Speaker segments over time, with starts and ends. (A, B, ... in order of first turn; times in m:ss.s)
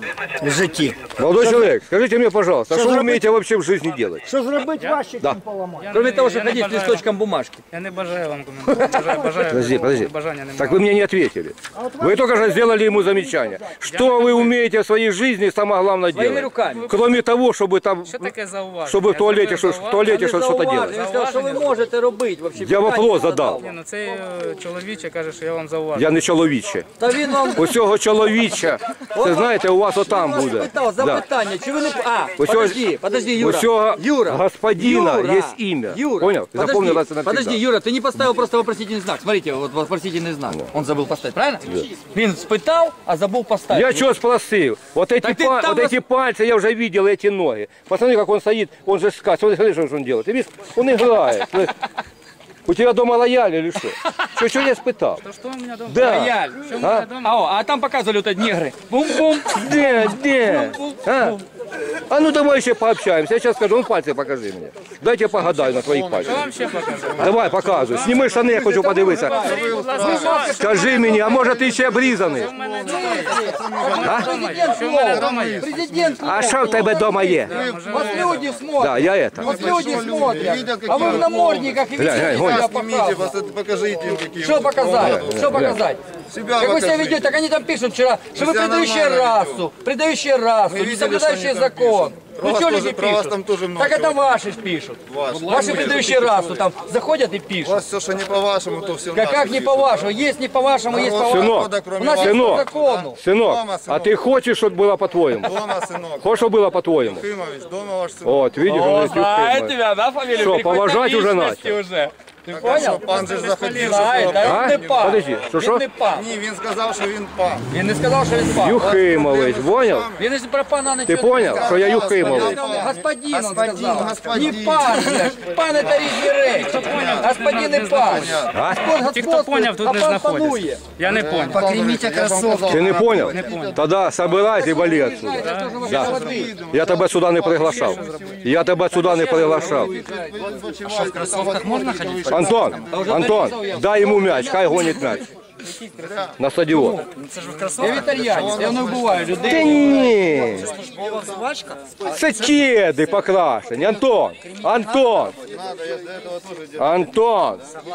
0:00.4-0:01.6 A
0:01.1-0:04.3 B
0:02.7-0:03.2 A
0:04.3-0:05.9 A
0:04.8-0:05.0 C
0:05.8-0:07.0 C
0:05.9-0:07.6 D
0:07.7-0:10.8 C
0:09.5-0:21.0 B
0:11.8-0:12.7 A
0:13.9-0:14.6 C
0:16.1-0:16.9 D
0:16.6-0:17.2 C
0:18.0-0:20.2 C
0:20.0-0:23.8 D
0:20.8-0:21.8 C
0:22.6-0:23.6 B
0:23.6-0:26.2 C
0:25.9-0:31.2 B
0:27.0-0:27.7 D
0:29.1-0:44.1 D
0:32.4-0:32.8 B
0:33.4-0:37.6 B
0:43.7-0:51.8 B
0:45.2-0:46.0 D
0:52.7-0:55.2 B
0:55.2-0:57.3 C
0:55.9-0:57.1 B
0:56.0-1:01.4 D
0:59.5-1:01.4 B
1:02.1-1:06.4 B
1:05.4-1:16.6 E
1:06.2-1:08.5 C
1:07.2-1:09.6 B
1:08.5-1:11.6 D
1:09.4-1:11.2 C
1:10.6-1:12.5 B
1:11.7-1:15.7 C
1:12.8-1:23.3 D
1:14.0-1:14.3 B
1:16.2-1:17.6 B
1:17.4-1:18.6 C
1:17.5-1:18.4 E
1:18.8-1:19.7 B
1:19.4-1:25.6 E
1:22.0-1:22.6 B
1:24.4-1:26.0 D
1:25.0-1:25.8 B
1:26.3-1:27.3 E
1:26.6-1:37.8 D
1:28.4-1:29.7 E
1:30.7-1:34.2 E
1:35.1-1:36.6 E
1:37.6-1:40.1 E
1:39.1-1:43.2 D
1:40.9-1:44.3 E
1:41.1-1:45.6 B
1:45.4-1:46.4 E
1:46.2-1:47.3 B
1:47.0-1:48.5 E
1:48.2-1:51.8 B
1:48.7-1:56.3 D
1:52.5-1:55.2 E
1:52.8-1:54.4 C
1:54.4-1:55.9 B
1:56.1-1:57.7 E
1:57.7-1:59.0 D
1:58.6-2:00.1 B
1:58.8-2:00.2 E
2:00.2-2:13.2 D
2:01.1-2:02.6 B
2:01.4-2:05.3 E
2:06.4-2:11.7 C
2:06.8-2:07.3 E
2:08.0-2:08.5 E
2:08.5-2:08.8 B
2:11.0-2:13.8 E
2:12.7-2:19.9 B
2:13.3-2:13.8 C
2:14.4-2:16.6 D
2:15.4-2:15.8 C
2:15.8-2:18.4 E
2:17.6-2:18.4 C
2:18.9-2:20.4 D
2:19.3-2:23.5 E
2:20.9-2:22.4 C
2:22.3-2:25.2 B
2:22.8-2:25.2 D
2:25.6-2:26.2 C
2:26.0-2:26.4 E
2:26.4-2:27.1 B
2:26.8-2:29.9 C
2:27.8-2:30.1 D
2:27.8-2:31.3 E
2:29.4-2:30.7 B
2:30.5-2:31.4 C
2:30.8-2:31.8 D
2:32.0-2:35.4 B
2:35.4-2:36.9 E
2:36.8-2:37.6 B